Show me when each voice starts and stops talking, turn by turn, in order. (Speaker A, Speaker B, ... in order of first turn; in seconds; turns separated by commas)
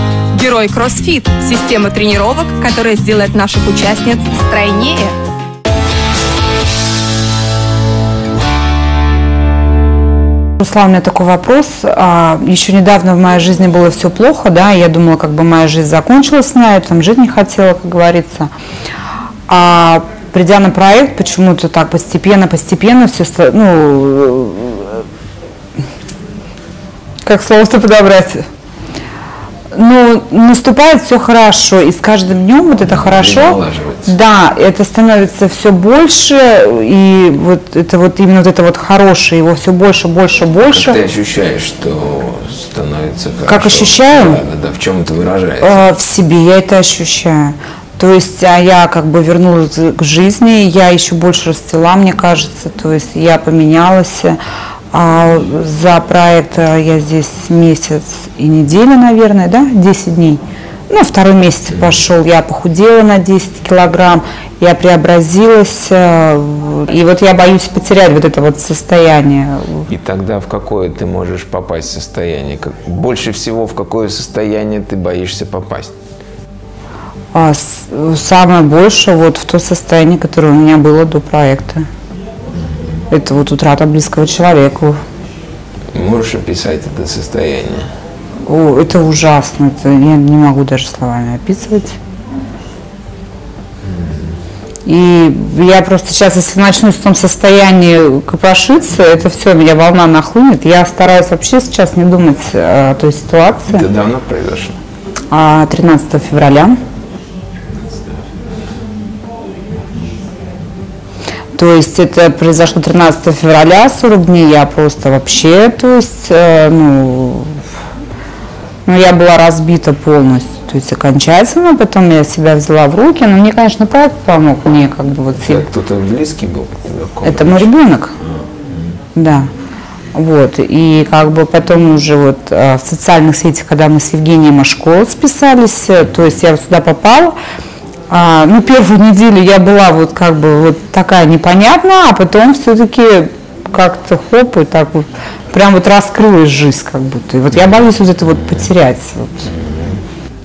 Speaker A: 0.3-5.2, Speaker B: 10.6-18.5, Speaker B: 19.5-25.0, Speaker B: 27.2-28.4, Speaker B: 29.7-41.0, Speaker C: 32.8-34.1, Speaker C: 40.7-45.8, Speaker B: 43.5-44.4, Speaker B: 45.6-54.4, Speaker B: 54.9-69.8, Speaker C: 61.7-62.0, Speaker C: 69.9-75.9, Speaker B: 77.3-81.8, Speaker C: 82.6-83.0, Speaker B: 83.1-85.0, Speaker C: 85.9-87.9, Speaker B: 88.5-92.0, Speaker B: 94.8-103.8, Speaker C: 103.7-104.8, Speaker B: 105.3-106.8, Speaker C: 107.7-108.3, Speaker B: 111.5-117.6, Speaker B: 118.8-125.6, Speaker C: 125.4-127.7, Speaker B: 127.2-128.1, Speaker B: 129.1-129.5, Speaker B: 130.1-137.3, Speaker B: 138.1-149.5, Speaker C: 149.6-150.0